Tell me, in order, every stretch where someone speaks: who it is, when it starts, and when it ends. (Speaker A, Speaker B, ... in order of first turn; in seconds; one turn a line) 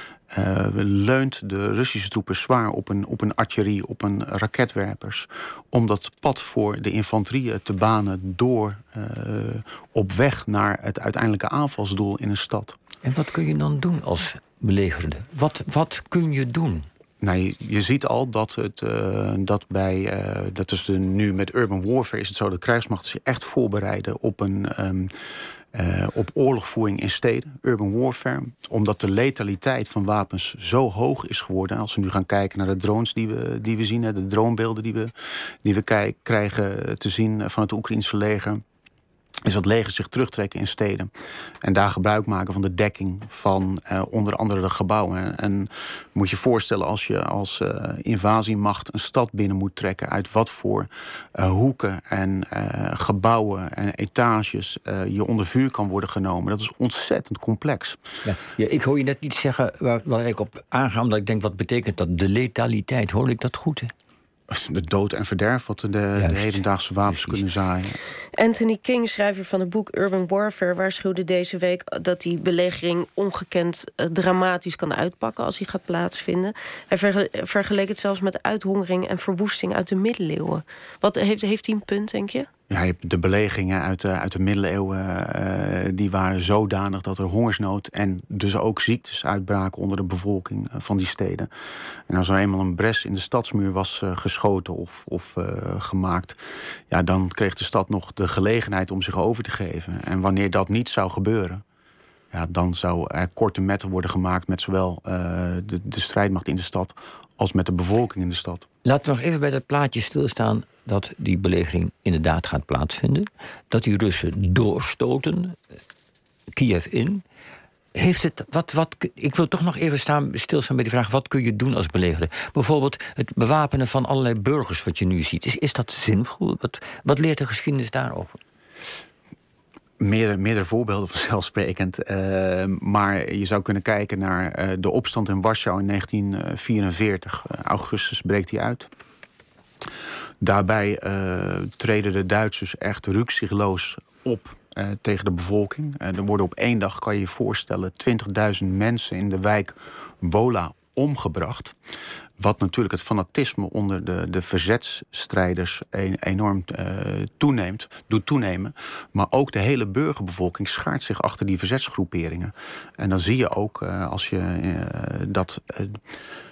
Speaker A: 0.3-12.8
Speaker B: 13.0-16.9
Speaker A: 17.2-25.1
Speaker A: 25.7-35.1
Speaker A: 35.6-38.6
Speaker A: 39.5-41.1
Speaker A: 41.6-58.0
Speaker B: 58.2-63.9
Speaker A: 64.5-68.0
Speaker B: 66.2-67.4
Speaker C: 68.3-82.5
Speaker A: 82.7-91.5
Speaker A: 92.1-96.4
Speaker A: 96.9-101.6
Speaker A: 102.3-108.7
Speaker B: 108.8-115.6
Speaker B: 116.5-117.2
Speaker B: 118.0-128.4
Speaker A: 130.0-138.9
Speaker A: 140.4-151.8
Speaker A: 152.4-166.0